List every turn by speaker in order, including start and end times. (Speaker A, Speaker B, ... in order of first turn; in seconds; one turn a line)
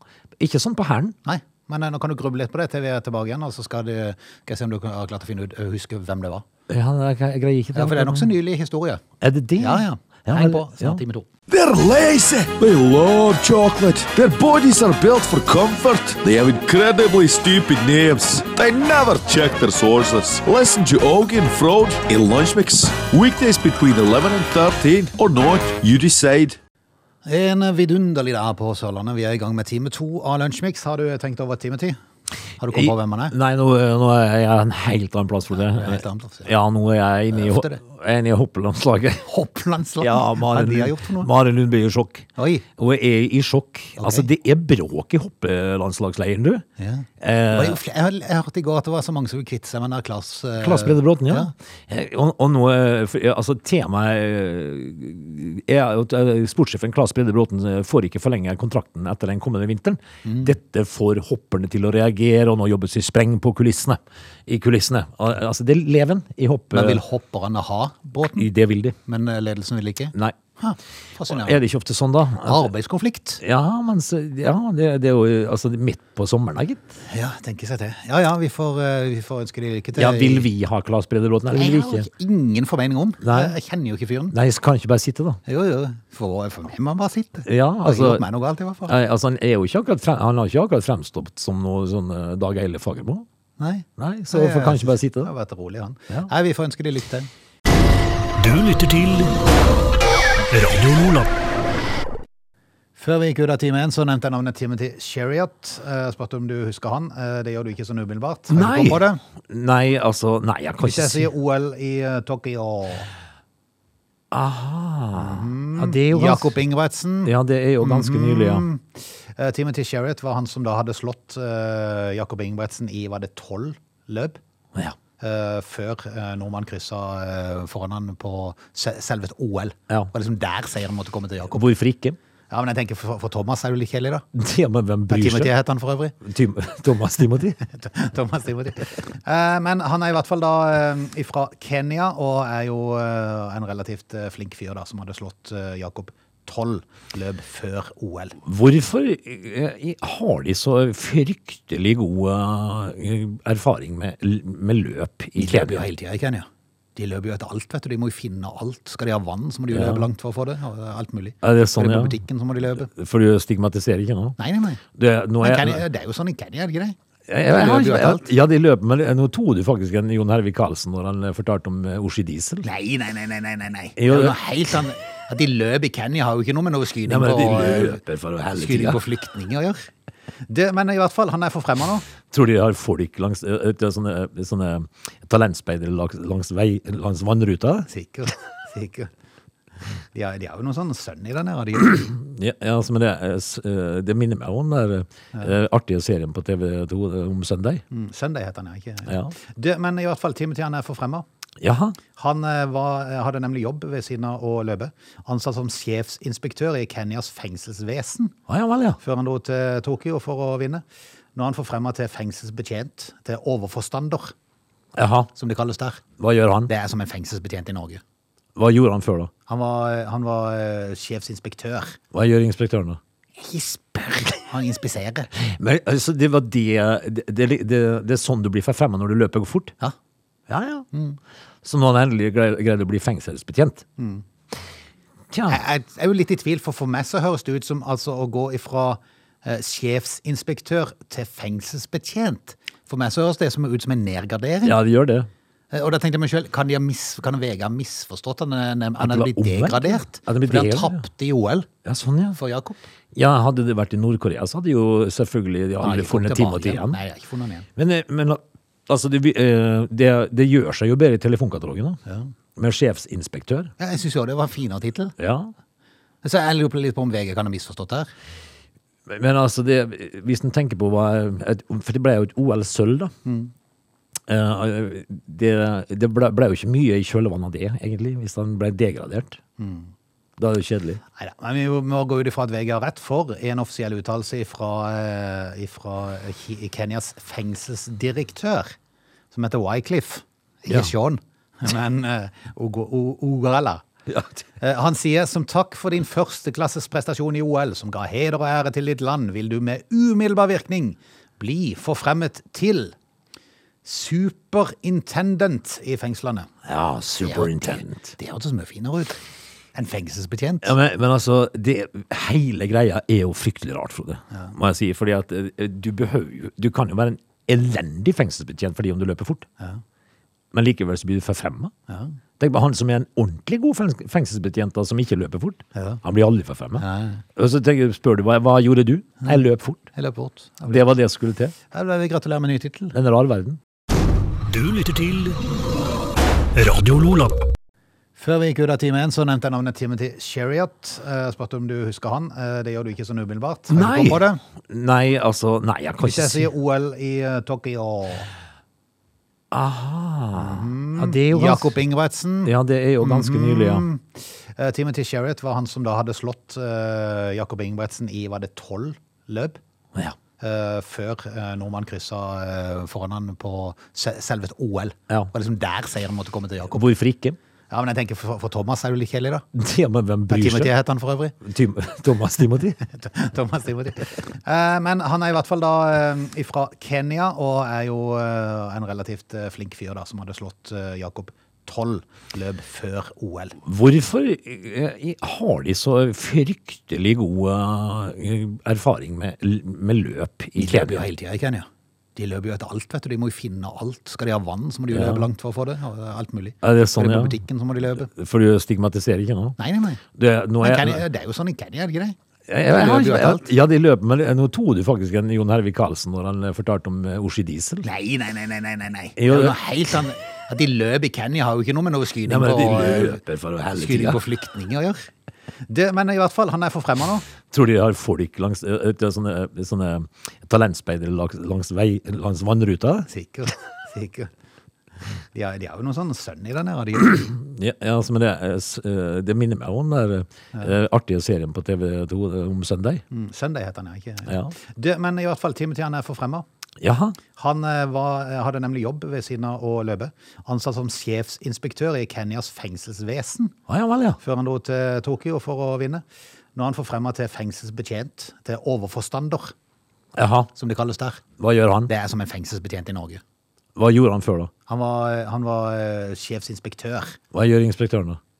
Speaker A: 0.4-1.1
Speaker B: 1.2-6.4
Speaker A: 6.7-8.3
Speaker B: 7.7-9.0
Speaker A: 9.2-11.0
Speaker B: 9.6-11.3
Speaker C: 11.5-26.6
Speaker B: 27.2-32.0
Speaker B: 32.6-33.3
Speaker A: 32.7-39.3
Speaker B: 35.5-36.5
Speaker B: 37.3-37.8
Speaker B: 39.2-41.3
Speaker A: 40.0-46.6
Speaker B: 42.4-42.6
Speaker B: 44.0-44.3
Speaker B: 46.8-51.5
Speaker A: 47.2-47.8
Speaker A: 50.6-67.0
Speaker B: 60.2-60.5
Speaker B: 66.7-68.5
Speaker A: 68.3-69.0
Speaker B: 69.0-71.6
Speaker A: 71.2-72.7
Speaker B: 72.4-73.4
Speaker A: 73.4-77.0
Speaker B: 77.1-80.5
Speaker A: 79.9-82.1
Speaker B: 81.5-84.3
Speaker A: 83.2-83.5
Speaker A: 84.3-85.4
Speaker B: 85.5-89.0
Speaker A: 87.5-88.2
Speaker A: 88.9-93.2
Speaker B: 93.6-97.3
Speaker A: 94.0-95.3
Speaker D: 98.4-99.4
Speaker D: 100.5-101.3
Speaker B: 103.0-109.2
Speaker A: 108.5-111.3
Speaker B: 110.8-113.1
Speaker A: 114.3-116.6
Speaker B: 115.2-124.4
Speaker A: 117.2-118.7
Speaker B: 125.2-131.6
Speaker A: 131.5-132.2
Speaker B: 132.5-134.2
Speaker A: 134.3-135.5
Speaker B: 135.1-136.2
Speaker A: 136.2-137.6
Speaker B: 137.7-148.4
Speaker A: 148.4-155.8
Speaker B: 155.4-162.9
Speaker A: 159.7-160.1
Speaker A: 161.4-162.2
Speaker A: 162.8-164.4
Speaker B: 164.4-164.8
Speaker A: 164.9-165.8
Speaker B: 165.4-167.0
Speaker A: 167.3-172.7
Speaker B: 167.5-168.3
Speaker B: 172.6-178.0
Speaker A: 174.0-174.4
Speaker A: 177.0-179.0
Speaker B: 178.5-179.9
Speaker B: 180.5-182.1
Speaker A: 182.3-187.9
Speaker B: 187.9-189.1
Speaker B: 190.1-192.1
Speaker A: 192.0-197.8
Speaker B: 197.9-201.2
Speaker A: 199.1-199.3
Speaker A: 201.6-202.0
Speaker B: 202.2-208.3
Speaker A: 208.5-209.0
Speaker B: 209.0-210.8
Speaker B: 211.3-214.3
Speaker A: 214.9-215.3
Speaker B: 215.3-216.0
Speaker A: 216.2-216.7
Speaker B: 216.7-218.0
Speaker A: 218.6-219.3
Speaker B: 219.5-222.0
Speaker A: 222.1-223.0
Speaker B: 223.4-225.3
Speaker A: 225.3-229.7
Speaker A: 230.5-230.9
Speaker B: 230.9-231.2
Speaker A: 231.6-233.8
Speaker B: 234.0-234.2
Speaker A: 235.3-235.6
Speaker B: 235.5-244.8
Speaker A: 244.6-245.3
Speaker B: 245.7-251.7
Speaker A: 249.0-251.0
Speaker A: 251.8-252.4
Speaker B: 252.3-252.8
Speaker A: 253.1-257.0
Speaker B: 255.8-257.7
Speaker A: 257.8-262.0
Speaker B: 262.1-262.3
Speaker A: 262.6-263.7
Speaker B: 263.8-265.1
Speaker A: 265.2-265.5
Speaker B: 266.2-268.1
Speaker A: 269.1-273.1
Speaker B: 273.2-273.5
Speaker A: 274.3-279.4
Speaker B: 279.6-279.9
Speaker A: 280.4-281.0
Speaker B: 281.1-288.8
Speaker B: 289.3-293.8
Speaker A: 294.1-294.4
Speaker B: 294.6-302.9
Speaker B: 303.8-306.5
Speaker A: 306.6-308.1
Speaker B: 307.2-309.2
Speaker B: 309.7-310.7
Speaker A: 310.6-319.4
Speaker A: 320.5-321.7
Speaker B: 321.9-322.1
Speaker A: 322.4-326.8
Speaker B: 325.7-326.0
Speaker B: 326.8-327.2
Speaker A: 327.4-329.8
Speaker B: 329.9-330.9
Speaker A: 330.7-331.5
Speaker B: 331.7-332.9
Speaker A: 332.9-333.6
Speaker D: 334.5-335.4
Speaker D: 336.5-337.4
Speaker B: 338.2-344.4
Speaker A: 343.7-346.5
Speaker B: 346.0-348.3
Speaker A: 349.5-351.8
Speaker B: 350.4-359.6
Speaker A: 352.4-353.9
Speaker B: 360.4-366.8
Speaker A: 366.7-367.4
Speaker B: 367.7-369.4
Speaker A: 369.5-370.7
Speaker B: 370.3-371.4
Speaker A: 371.4-372.8
Speaker B: 372.9-383.6
Speaker A: 383.6-391.0
Speaker B: 390.6-398.1
Speaker A: 394.9-395.2
Speaker A: 396.6-397.4
Speaker A: 398.0-399.6
Speaker B: 399.6-400.0
Speaker A: 400.1-401.0
Speaker B: 400.6-402.1
Speaker A: 402.5-407.9
Speaker B: 402.7-403.5
Speaker B: 407.8-413.2
Speaker A: 409.2-409.6
Speaker A: 412.2-414.2
Speaker B: 413.7-415.1
Speaker B: 415.7-417.2
Speaker A: 417.5-423.1
Speaker B: 423.1-424.3
Speaker B: 425.3-427.3
Speaker A: 427.2-433.0
Speaker B: 433.1-436.4
Speaker A: 434.3-434.5
Speaker A: 436.8-437.2
Speaker B: 437.4-443.5
Speaker A: 443.7-444.2
Speaker B: 444.2-446.0
Speaker B: 446.5-449.5
Speaker A: 450.1-450.5
Speaker B: 450.5-451.2
Speaker A: 451.4-451.9
Speaker B: 451.9-453.2
Speaker A: 453.8-454.5
Speaker B: 454.7-457.2
Speaker A: 457.3-458.2